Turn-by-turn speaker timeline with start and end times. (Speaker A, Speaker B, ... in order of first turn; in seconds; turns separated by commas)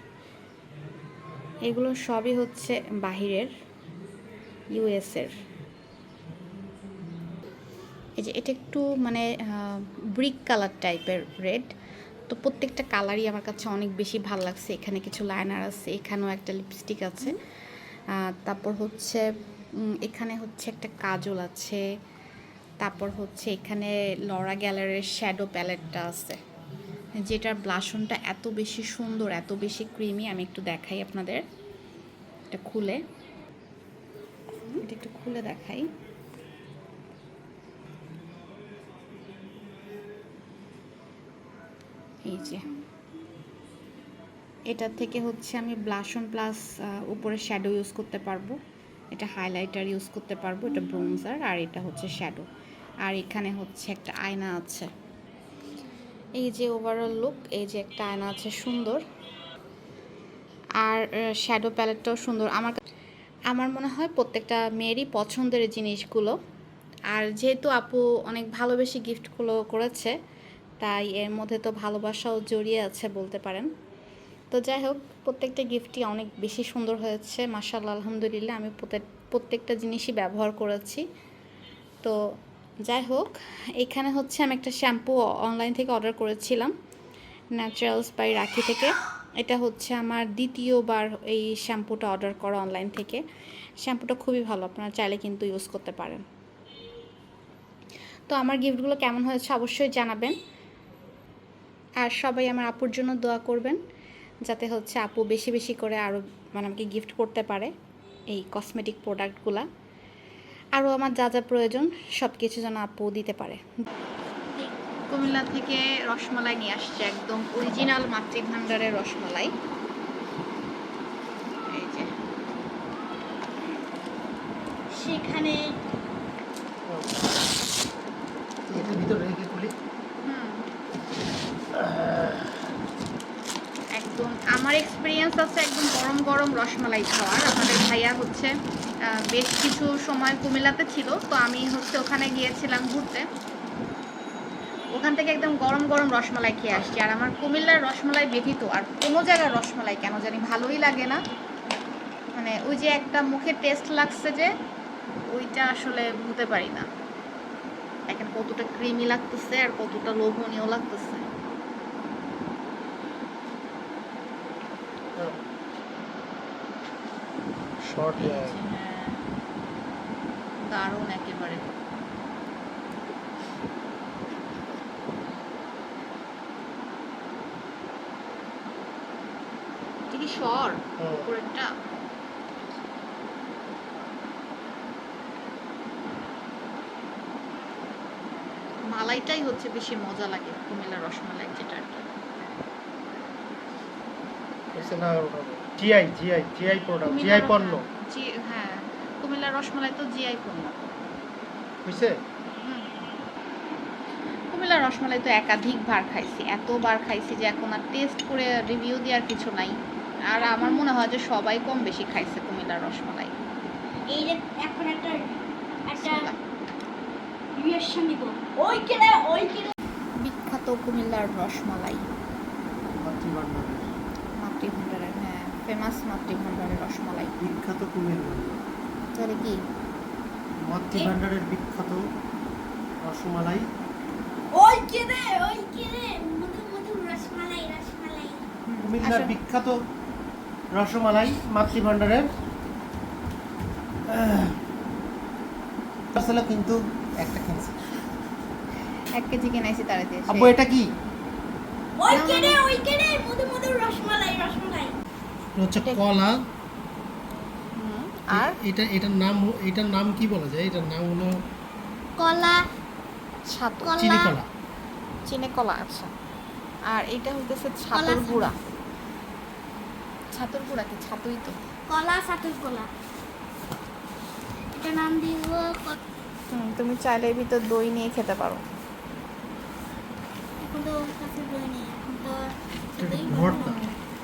Speaker A: 1.6-3.5, Speaker A: 4.7-5.4, Speaker A: 8.2-11.7, Speaker A: 12.3-17.4, Speaker A: 18.2-19.2, Speaker A: 19.9-21.8, Speaker A: 22.8-26.4, Speaker A: 27.2-31.4, Speaker A: 32.5-33.0, Speaker A: 34.7-35.9, Speaker A: 42.2-42.8, Speaker A: 44.7-48.6, Speaker A: 49.1-52.5, Speaker A: 53.0-54.9, Speaker A: 56.4-59.0, Speaker A: 60.8-62.8, Speaker A: 63.5-66.3, Speaker A: 67.1-70.1, Speaker A: 70.8-73.7, Speaker A: 74.5-81.0, Speaker A: 82.8-86.7, Speaker A: 87.5-93.2, Speaker A: 93.8-96.2, Speaker A: 98.3-100.3, Speaker A: 102.0-103.8, Speaker A: 104.5-107.7, Speaker A: 108.3-109.7, Speaker A: 110.8-113.6, Speaker A: 115.1-119.5, Speaker A: 121.7-122.1, Speaker B: 124.9-125.7, Speaker C: 126.9-127.3, Speaker C: 128.7-129.7, Speaker A: 130.2-130.6, Speaker C: 131.8-132.5, Speaker A: 133.9-138.5, Speaker A: 139.1-143.2, Speaker A: 144.9-151.2, Speaker A: 152.3-154.5, Speaker A: 155.3-156.9, Speaker A: 158.1-161.3, Speaker C: 167.8-168.6, Speaker A: 168.2-169.2, Speaker A: 170.6-171.7, Speaker A: 180.1-181.7, Speaker C: 181.0-181.3, Speaker A: 188.9-192.1, Speaker C: 194.7-197.8, Speaker A: 197.1-200.9, Speaker C: 201.8-202.1, Speaker A: 202.6-202.9, Speaker A: 204.5-209.8, Speaker A: 210.3-213.3, Speaker B: 210.3-210.9, Speaker B: 214.1-216.2, Speaker A: 216.0-216.4, Speaker B: 217.5-219.7, Speaker A: 220.2-222.0, Speaker C: 223.0-223.9, Speaker A: 224.4-227.3, Speaker C: 227.4-228.6, Speaker A: 229.2-229.6, Speaker C: 230.6-232.1, Speaker C: 233.0-233.7, Speaker B: 234.5-238.4, Speaker A: 238.7-239.3, Speaker C: 238.8-239.7, Speaker C: 240.7-242.3, Speaker C: 244.1-244.6, Speaker C: 246.2-247.9, Speaker A: 249.1-250.6, Speaker C: 250.3-250.9, Speaker B: 252.0-254.9, Speaker A: 252.1-252.6, Speaker C: 255.6-256.4, Speaker A: 257.8-258.6, Speaker C: 258.3-261.4, Speaker B: 262.2-262.6, Speaker A: 263.4-264.0, Speaker B: 263.8-264.3, Speaker C: 263.9-264.5, Speaker A: 265.2-266.1, Speaker A: 266.9-268.6, Speaker B: 267.9-268.5, Speaker A: 270.3-271.6, Speaker B: 271.9-272.9, Speaker B: 274.7-275.9, Speaker A: 276.5-278.6, Speaker B: 280.6-283.8, Speaker C: 283.0-283.8, Speaker A: 283.4-283.9